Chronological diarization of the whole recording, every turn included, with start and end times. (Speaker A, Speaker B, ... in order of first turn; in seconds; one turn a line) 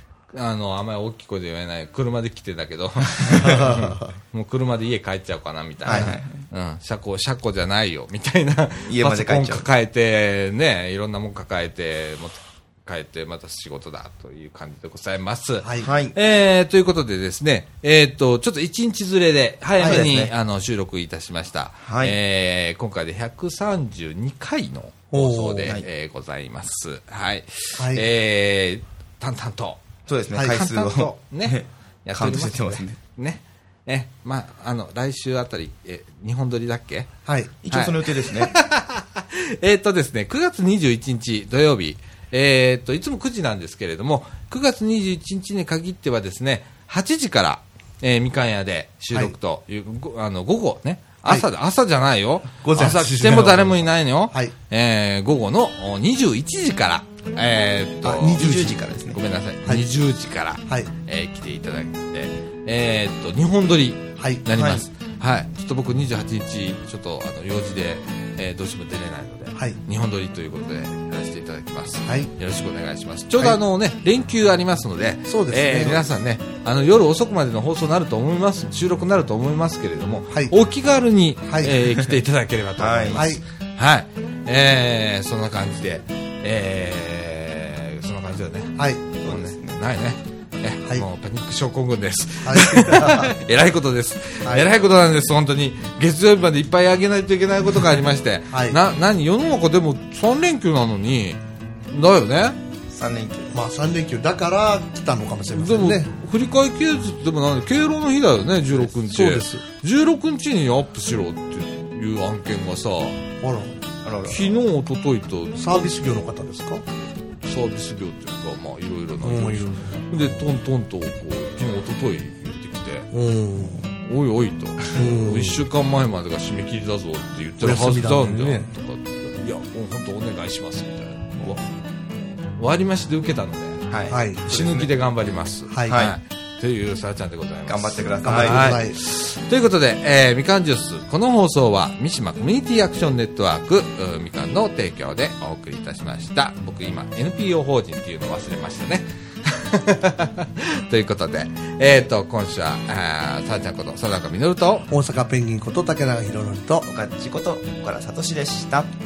Speaker A: 0.3-29.8
Speaker B: 3.1-3.6
Speaker C: 3.4-4.1
Speaker B: 5.8-6.5
Speaker B: 8.9-9.7
Speaker C: 15.6-15.9
Speaker B: 15.8-16.2
Speaker C: 19.8-20.3
Speaker B: 19.8-20.3
Speaker B: 21.8-22.2
Speaker C: 25.1-25.8
Speaker C: 27.8-28.1
Speaker B: 30.1-33.0
Speaker A: 30.4-37.1
Speaker C: 37.2-37.5
Speaker B: 37.6-38.6
Speaker A: 37.7-102.6
Speaker C: 52.6-54.5
Speaker B: 58.0-59.2
Speaker C: 58.1-58.8
Speaker C: 64.2-64.5
Speaker B: 64.5-64.9
Speaker C: 75.3-76.0
Speaker C: 81.5-81.7
Speaker B: 81.9-82.2
Speaker B: 82.8-83.2
Speaker C: 83.2-83.4
Speaker C: 88.8-89.0
Speaker B: 89.2-89.8
Speaker C: 92.4-93.3
Speaker C: 94.4-94.7
Speaker C: 98.5-98.8
Speaker B: 102.9-103.6
Speaker C: 103.5-106.1
Speaker A: 105.5-113.2
Speaker C: 108.8-109.6
Speaker C: 113.4-113.8
Speaker B: 114.0-114.5
Speaker A: 114.2-115.9
Speaker C: 115.6-116.8
Speaker A: 117.4-123.1
Speaker C: 119.2-120.5
Speaker C: 123.1-123.8
Speaker A: 123.9-131.6
Speaker C: 124.9-125.6
Speaker C: 127.6-128.7
Speaker A: 132.6-133.8
Speaker B: 133.9-134.9
Speaker C: 134.1-134.5
Speaker A: 134.5-154.9
Speaker C: 135.7-136.0
Speaker B: 135.9-136.2
Speaker B: 137.7-138.8
Speaker C: 138.2-139.0
Speaker C: 154.9-156.9
Speaker B: 156.9-158.9